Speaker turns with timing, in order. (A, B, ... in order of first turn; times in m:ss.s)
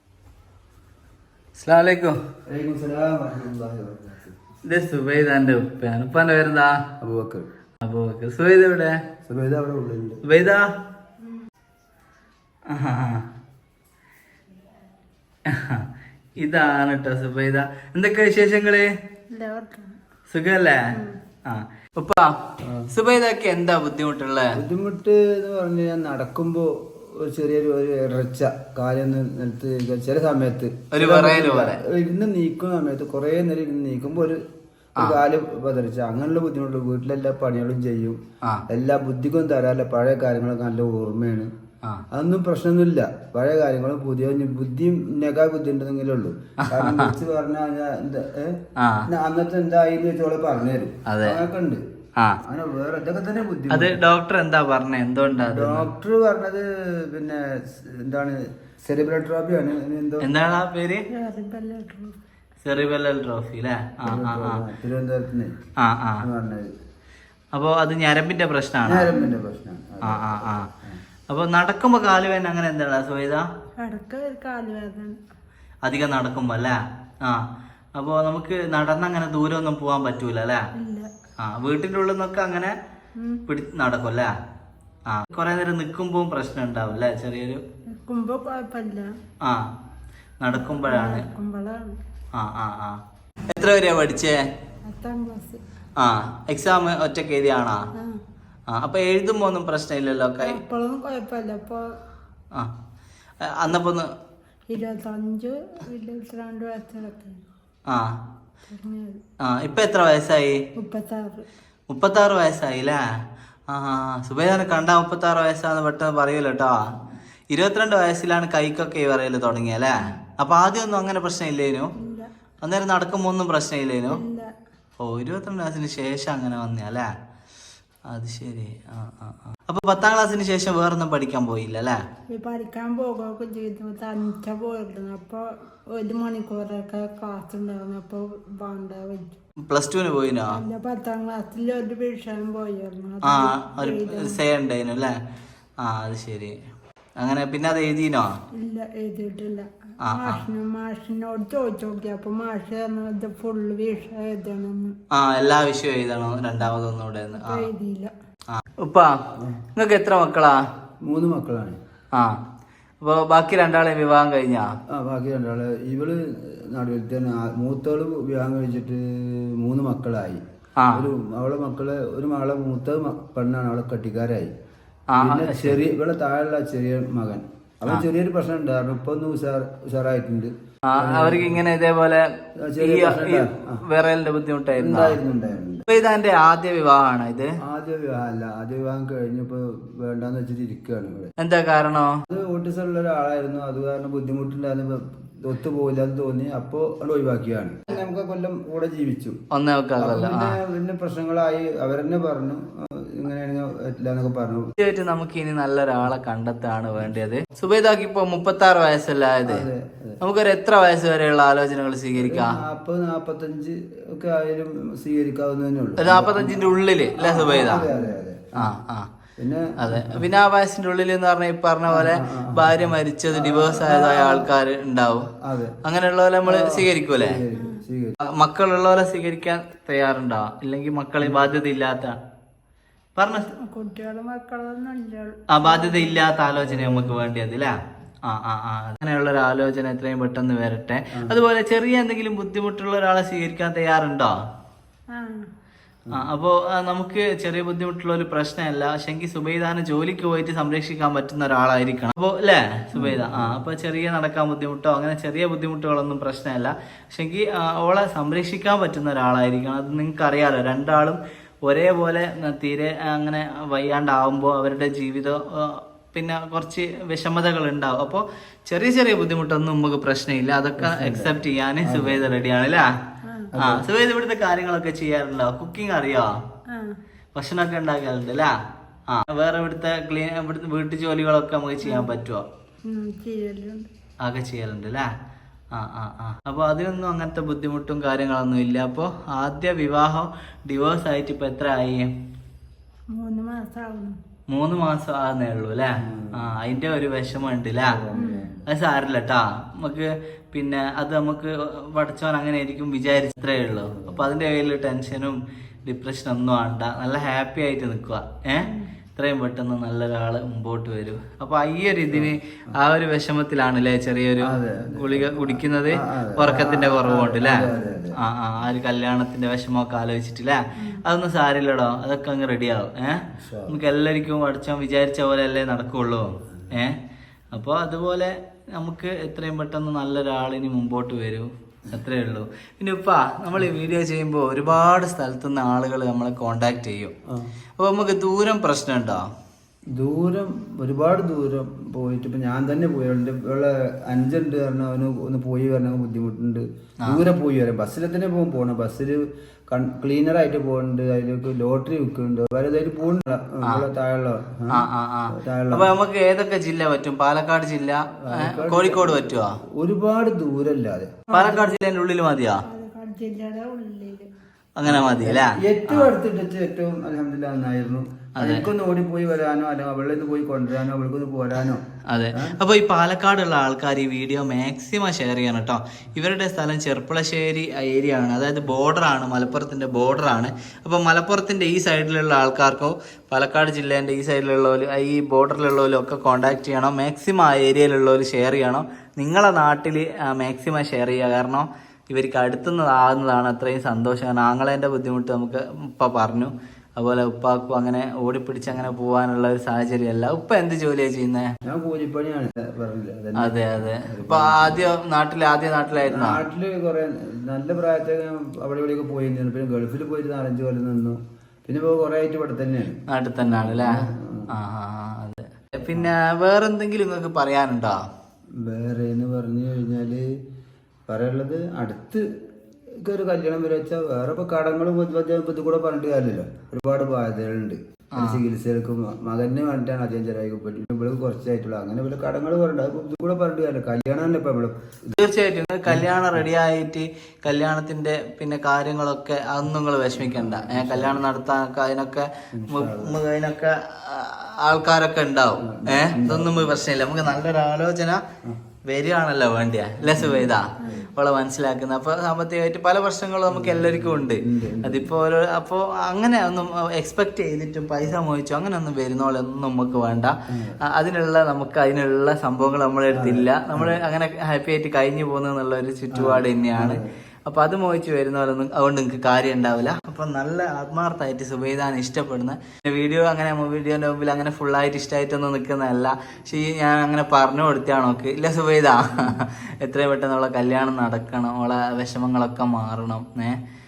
0:01.6-0:02.2 A
0:02.5-0:04.3 B
0:04.6-0:06.8 A
0:07.0-0:07.5 B
0:07.8-0:09.0 A
0:09.2-0:10.2 B
0:10.2-0:10.6 A
0:12.7-0:13.2 A
0:15.5-0:15.8 A
0:16.4-0:18.9 A
0:19.3-0:20.0 C
0:20.3-0:20.9 A
0:20.9-0:21.2 C
0:21.4-0:22.3 A
0:22.6-0:22.9 B
0:22.9-0:24.6 A
0:24.6-0:34.4 B
0:30.9-0:31.8 A
0:35.0-0:38.2 B
0:38.7-0:41.5 B
0:42.1-0:51.8 B
0:46.6-0:47.2 A
0:48.8-0:49.1 A
0:51.0-0:51.4 A
0:52.2-0:52.4 A
0:52.4-0:54.0 B
0:53.7-0:55.9 A
0:55.4-1:00.3 B
1:00.2-1:01.0 A
1:01.1-1:02.2 C
1:02.6-1:04.6 A
1:04.0-1:05.5 B
1:05.8-1:06.2 A
1:06.2-1:06.7 B
1:07.5-1:09.1 A
1:08.8-1:11.0 B
1:09.1-1:09.4 C
1:10.0-1:10.7 A
1:11.3-1:13.4 A
1:13.8-1:15.2 C
1:15.8-1:20.6 A
1:20.7-1:21.1 C
1:21.4-1:22.7 A
1:23.2-1:23.4 C
1:23.5-1:24.3 A
1:25.1-1:27.6 A
1:27.9-1:29.1 C
1:29.4-1:29.7 A
1:30.4-1:31.3 A
1:30.5-1:32.0 C
1:32.3-1:34.4 A
1:34.9-1:35.6 C
1:36.0-1:37.9 A
1:38.7-1:40.6 A
1:40.4-1:41.9 C
1:43.4-1:44.1 A
1:44.7-1:47.4 C
1:47.8-1:48.2 A
1:48.7-1:49.2 C
1:49.4-1:50.6 A
1:50.8-1:51.4 C
1:51.9-1:53.0 A
1:53.7-1:56.8 A
1:57.5-2:01.9 A
2:02.0-2:02.3 C
2:02.6-2:04.2 A
2:04.1-2:04.5 C
2:05.0-2:07.1 A
2:08.1-2:12.0 A
2:12.3-2:19.4 C
2:19.6-2:20.6 A
2:20.5-2:24.4 C
2:23.2-2:25.2 A
2:25.8-2:26.6 A
2:27.2-2:28.3 A
2:28.6-2:34.9 C
2:30.0-2:30.4 A
2:35.1-2:37.7 A
2:37.3-2:38.1 C
2:38.5-2:39.1 A
2:39.7-2:40.6 A
2:41.1-2:41.8 B
2:42.1-2:42.4 A
2:43.0-2:44.7 A
2:44.9-2:54.5 B
2:50.8-2:51.1 A
2:55.1-2:55.8 A
2:55.2-3:01.6 B
3:00.9-3:02.3 A
3:02.6-3:03.8 B
3:02.8-3:05.2 A
3:04.7-3:05.8 B
3:05.8-3:07.5 A
3:07.6-3:11.3 B
3:11.4-3:12.2 A
3:12.3-3:19.4 B
3:19.5-3:20.6 A
3:20.0-3:24.7 B
3:24.8-3:29.6 A
3:29.4-3:30.2 B
3:30.2-3:32.6 A
3:32.2-3:38.7 B
3:36.0-3:37.9 A
3:37.7-3:38.2 C
3:38.6-3:39.1 A
3:39.4-3:40.2 B
3:39.8-3:45.3 A
3:41.9-3:44.5 B
3:45.4-3:45.8 B
3:45.8-3:47.4 A
3:46.4-3:48.2 B
3:48.2-3:52.2 A
3:53.2-3:53.5 A
3:53.5-3:56.3 C
3:55.5-3:57.7 A
3:56.5-3:57.2 B
3:58.2-4:04.3 A
4:01.1-4:01.4 B
4:05.1-4:05.5 C
4:06.1-4:32.9 A
4:13.0-4:13.6 B
4:30.8-4:32.3 B
4:33.2-4:33.5 C
4:33.5-4:33.9 B
4:33.6-4:36.3 A
4:36.7-4:37.0 C
4:37.3-4:38.5 A
4:39.1-4:42.4 A
4:41.8-4:42.2 C
4:42.8-4:43.9 C
4:44.2-4:45.1 A
4:45.7-4:52.1 A
4:53.1-4:54.2 C
4:54.5-4:58.0 A
4:56.0-4:56.5 B
4:57.8-4:58.6 B
4:58.1-4:58.5 C
4:58.7-5:27.0 A
5:03.9-5:04.2 B
5:08.6-5:08.9 C
5:12.1-5:12.8 B
5:14.4-5:18.2 B
5:17.7-5:18.0 C
5:20.8-5:21.0 C
5:23.3-5:23.8 B
5:27.5-5:37.1 A
5:37.8-5:39.3 A
5:39.9-5:55.9 B
5:54.7-5:59.6 A
5:58.2-6:01.2 B
6:01.3-6:02.6 A
6:01.3-6:01.7 C
6:02.6-6:04.3 C
6:04.8-6:06.1 A
6:04.8-6:11.8 B
6:08.4-6:08.7 A
6:12.1-6:41.5 A
6:41.6-6:44.9 B
6:43.4-6:46.4 A
6:46.0-6:54.5 B
6:53.1-6:58.0 A
6:55.8-6:56.1 B
6:58.6-7:00.2 B
7:01.1-7:02.2 B
7:03.0-7:15.2 B
7:08.1-7:08.4 A
7:15.1-7:28.2 A
7:15.9-7:16.4 B
7:20.1-7:21.2 B
7:22.5-7:23.2 B
7:25.6-7:26.9 B
7:28.9-7:40.3 A
7:30.0-7:31.0 B
7:33.5-7:35.2 B
7:40.5-7:40.8 B
7:40.8-8:03.6 A
7:43.1-7:44.0 B
7:46.1-7:47.1 B